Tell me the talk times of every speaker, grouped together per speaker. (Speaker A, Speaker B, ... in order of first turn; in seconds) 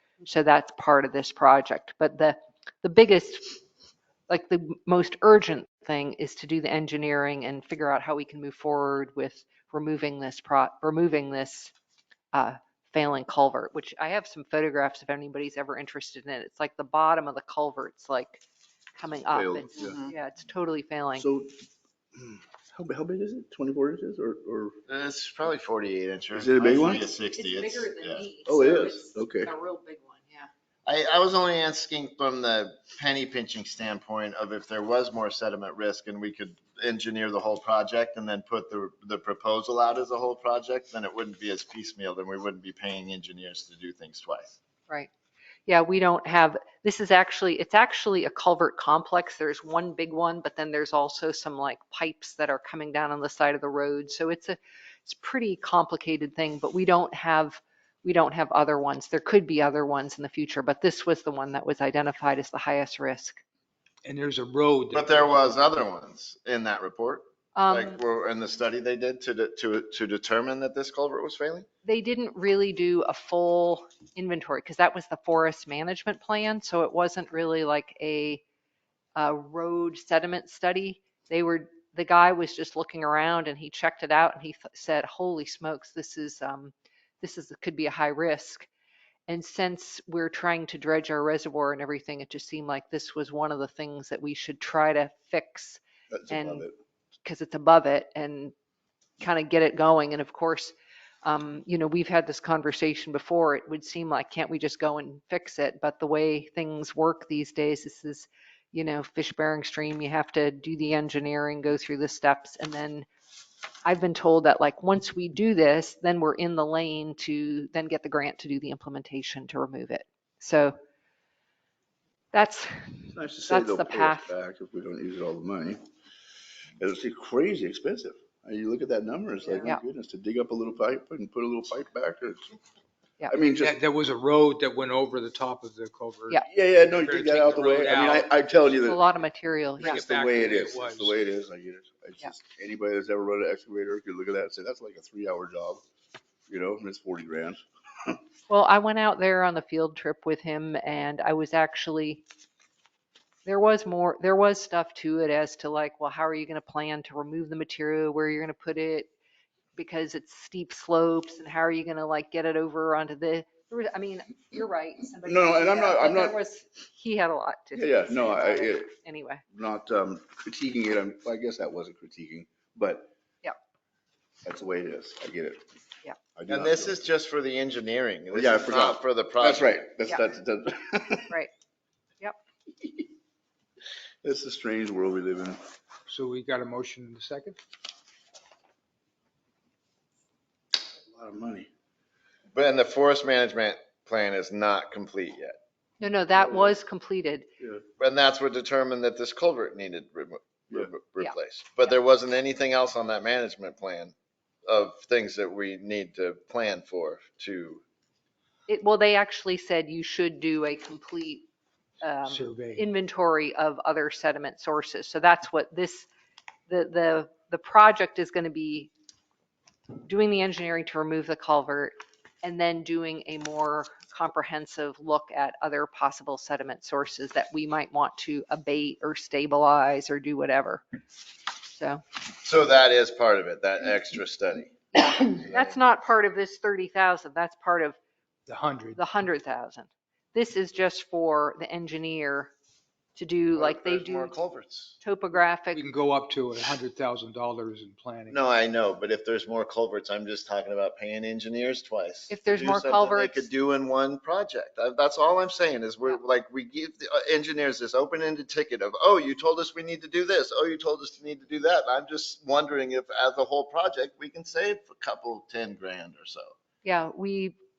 Speaker A: 0.2-3.6, 4.3-11.7, 12.3-18.4, 19.0-21.3, 27.3-30.5, 45.7-63.4, 67.5-68.0, 71.8-78.4, 79.2-88.7, 89.3-96.7, 97.2-98.5, 99.2-113.1, 113.8-120.8, 122.3-124.3, 129.6-129.8, 138.8-140.0, 148.5-152.2, 153.5-159.1, 159.8-169.4, 196.0-197.5, 208.7-211.5, 212.0-216.1, 216.7-218.9, 220.0-230.8, 231.6-232.0, 234.9-238.0, 239.0-242.5, 243.2-244.4, 245.0-245.8, 252.3-253.5, 266.8-267.6
Speaker B: 19.3-20.0, 21.2-21.5, 22.2-24.8, 26.4-27.1, 28.4-29.5, 96.1-96.8, 123.1-125.8, 126.8-132.4, 133.3-133.8, 136.5-139.0, 139.9-145.8, 146.5-148.2, 165.2-166.4, 167.8-168.9, 169.5-173.1, 174.4-175.6, 176.4-177.0, 178.3-181.3, 184.2-185.6, 191.0-191.7, 196.3-196.8
Speaker C: 19.8-20.1, 24.9-28.2, 30.9-44.6, 64.9-71.7, 176.5-179.8, 192.5-195.6, 198.0-204.1, 204.7-207.8, 232.4-235.8, 243.5-245.0, 248.3-266.5
Speaker D: 64.0-65.4, 133.6-138.3, 139.8-141.2, 186.1-187.6, 212.3-212.8, 238.5-239.0, 245.7-248.4